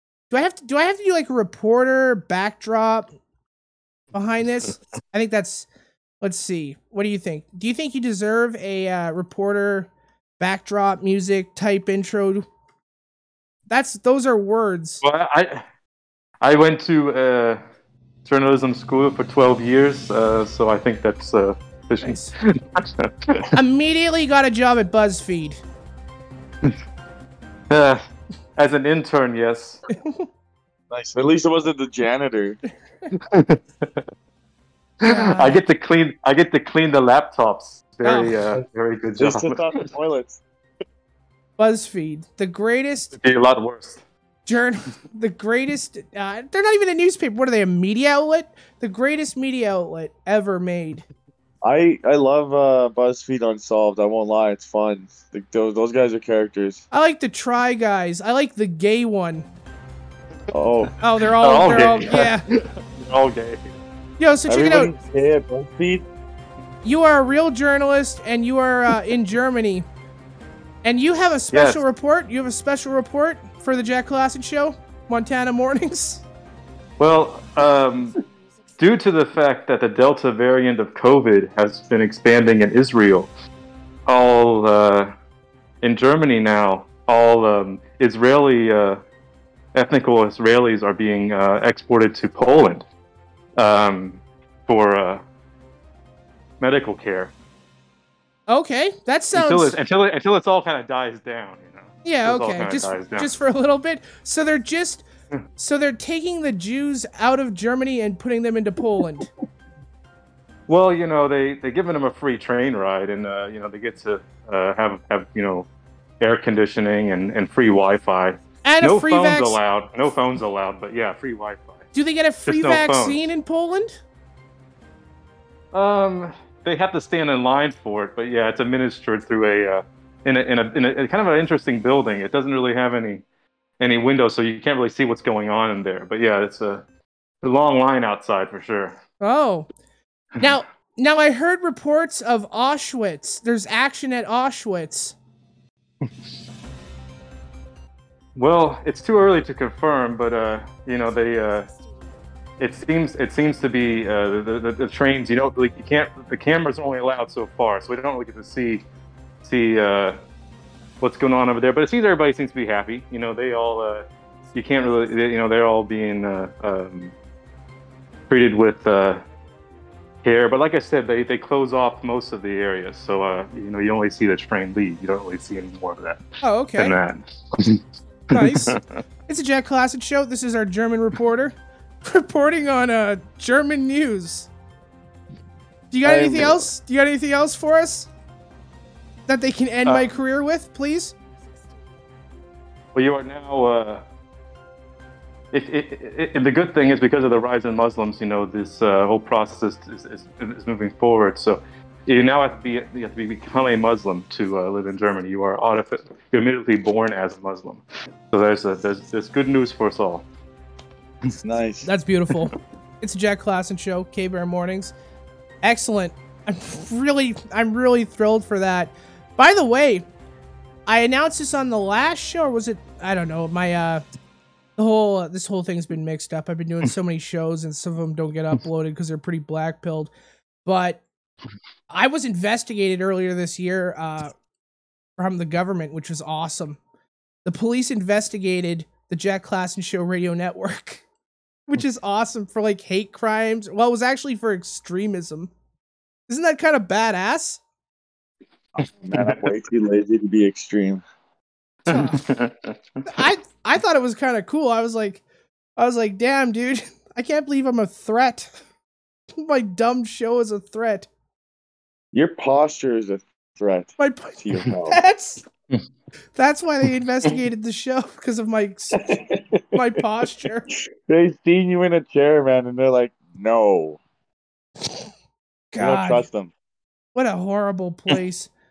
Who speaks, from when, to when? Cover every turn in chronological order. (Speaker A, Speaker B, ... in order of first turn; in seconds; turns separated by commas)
Speaker A: 0.3-3.1, Speaker A: 4.1-5.7, Speaker A: 6.2-12.5, Speaker A: 13.7-15.0, Speaker B: 15.0-15.6, Speaker B: 16.4-17.6, Speaker B: 18.3-23.5, Speaker A: 22.0-22.3, Speaker A: 23.5-25.6, Speaker B: 27.7-28.0, Speaker B: 28.6-29.8, Speaker A: 29.9-30.3, Speaker C: 30.9-32.6, Speaker B: 33.3-33.9, Speaker B: 35.0-39.9, Speaker A: 35.0-35.6, Speaker A: 38.0-38.4, Speaker C: 39.2-40.4, Speaker A: 41.6-43.1, Speaker B: 43.2-44.0, Speaker A: 44.5-51.0, Speaker C: 51.6-56.8, Speaker A: 56.9-59.5, Speaker C: 60.5-60.9, Speaker B: 60.9-63.7, Speaker A: 61.0-62.5, Speaker A: 64.2-64.9, Speaker C: 64.5-66.0, Speaker A: 66.8-69.8, Speaker A: 70.8-76.2, Speaker B: 71.5-71.8, Speaker B: 77.0-78.2, Speaker B: 78.8-83.3, Speaker B: 84.1-85.1, Speaker B: 85.8-89.0, Speaker B: 89.7-92.8, Speaker B: 93.6-95.2, Speaker B: 96.6-97.3, Speaker A: 98.5-99.8, Speaker B: 99.3-103.3, Speaker A: 102.0-105.0, Speaker A: 105.6-109.3, Speaker B: 110.7-115.7, Speaker B: 116.2-121.9, Speaker A: 118.6-119.6, Speaker A: 121.9-124.0, Speaker B: 122.4-123.2, Speaker B: 125.7-133.2, Speaker B: 133.8-136.8, Speaker B: 137.4-138.9, Speaker A: 139.2-139.7, Speaker A: 140.4-145.2, Speaker B: 148.3-151.7, Speaker B: 152.6-158.8, Speaker B: 159.4-160.2, Speaker B: 161.0-167.2, Speaker B: 168.3-169.2, Speaker B: 170.2-176.2, Speaker A: 176.4-177.0, Speaker B: 176.8-177.8, Speaker B: 178.3-178.8, Speaker A: 178.3-184.5, Speaker A: 185.9-188.1, Speaker C: 186.0-186.7, Speaker A: 189.3-191.1, Speaker B: 192.9-194.0, Speaker B: 195.5-210.2, Speaker C: 211.4-211.9, Speaker A: 211.8-214.9, Speaker A: 215.6-220.1, Speaker A: 220.9-224.0, Speaker A: 224.8-230.1, Speaker A: 230.6-231.0, Speaker A: 231.9-234.3, Speaker A: 235.2-236.8, Speaker A: 237.4-241.0, Speaker A: 241.7-245.5, Speaker A: 246.3-247.6, Speaker C: 248.8-251.0, Speaker B: 249.1-249.4, Speaker A: 251.8-252.2, Speaker B: 251.9-252.7, Speaker A: 253.1-255.2, Speaker A: 255.8-258.5, Speaker A: 259.4-261.1, Speaker C: 262.1-265.0, Speaker A: 264.0-265.4, Speaker A: 266.4-269.1, Speaker C: 269.0-269.8, Speaker A: 269.7-270.7, Speaker C: 270.7-274.0, Speaker A: 275.7-276.3, Speaker C: 275.8-276.5, Speaker A: 277.1-278.5